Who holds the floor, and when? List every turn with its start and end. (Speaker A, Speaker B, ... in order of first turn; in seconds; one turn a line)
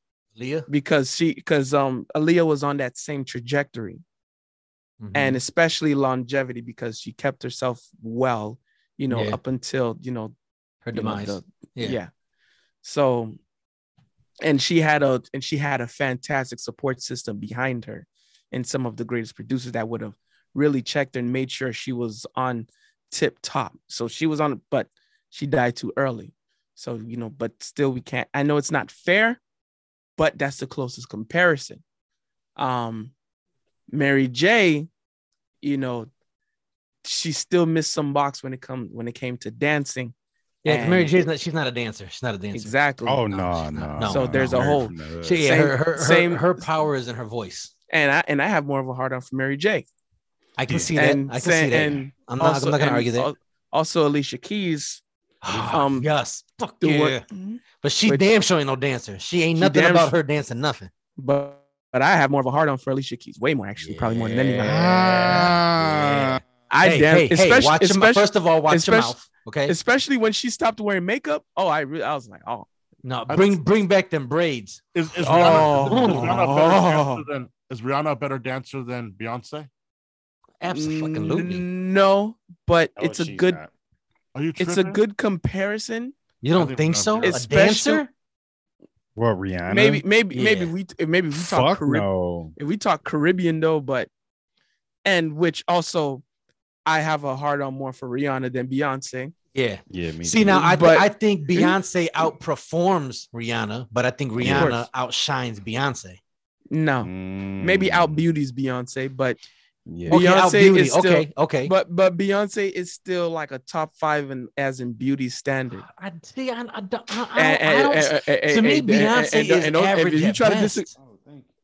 Speaker A: 0.3-0.7
Speaker B: 0.7-4.0
Speaker A: 5.0-5.4
Speaker B: 5.1-10.3
Speaker A: 9.1-9.4
Speaker A: 10.8-12.0
Speaker B: 10.9-12.1
Speaker B: 12.8-13.4
Speaker B: 14.4-29.4
Speaker B: 30.2-31.8
Speaker B: 32.6-33.1
Speaker B: 33.9-34.9
Speaker B: 35.6-36.1
Speaker B: 37.0-40.1
Speaker A: 40.6-42.8
Speaker B: 40.7-41.1
Speaker B: 42.5-43.2
Speaker C: 43.0-45.4
Speaker A: 43.3-47.7
Speaker B: 44.0-46.6
Speaker B: 47.9-49.9
Speaker A: 50.6-53.3
Speaker B: 51.0-55.0
Speaker A: 55.4-57.2
Speaker B: 55.7-56.1
Speaker B: 56.8-58.2
Speaker A: 57.8-60.9
Speaker B: 59.6-60.1
Speaker B: 61.2-64.8
Speaker A: 63.8-69.8
Speaker C: 64.6-66.4
Speaker B: 66.7-72.7
Speaker A: 73.0-76.5
Speaker D: 73.3-73.6
Speaker D: 75.0-79.7
Speaker B: 75.2-77.2
Speaker A: 80.6-81.7
Speaker B: 80.7-83.6
Speaker C: 83.0-83.7
Speaker D: 84.3-85.0
Speaker B: 84.6-86.1
Speaker A: 86.4-88.1
Speaker D: 86.5-87.4
Speaker B: 87.2-88.0
Speaker C: 89.2-90.0
Speaker B: 89.7-94.1
Speaker A: 90.3-90.7
Speaker C: 91.3-92.5
Speaker B: 95.0-96.2
Speaker B: 96.9-99.3
Speaker A: 99.5-106.2
Speaker C: 99.9-100.6
Speaker B: 100.5-101.8
Speaker C: 104.4-104.7
Speaker B: 104.4-104.9
Speaker B: 106.7-109.4
Speaker C: 107.0-108.2
Speaker C: 109.9-110.2
Speaker B: 110.1-115.8
Speaker A: 110.1-111.7
Speaker A: 115.8-120.9
Speaker B: 117.3-120.9
Speaker C: 121.0-121.5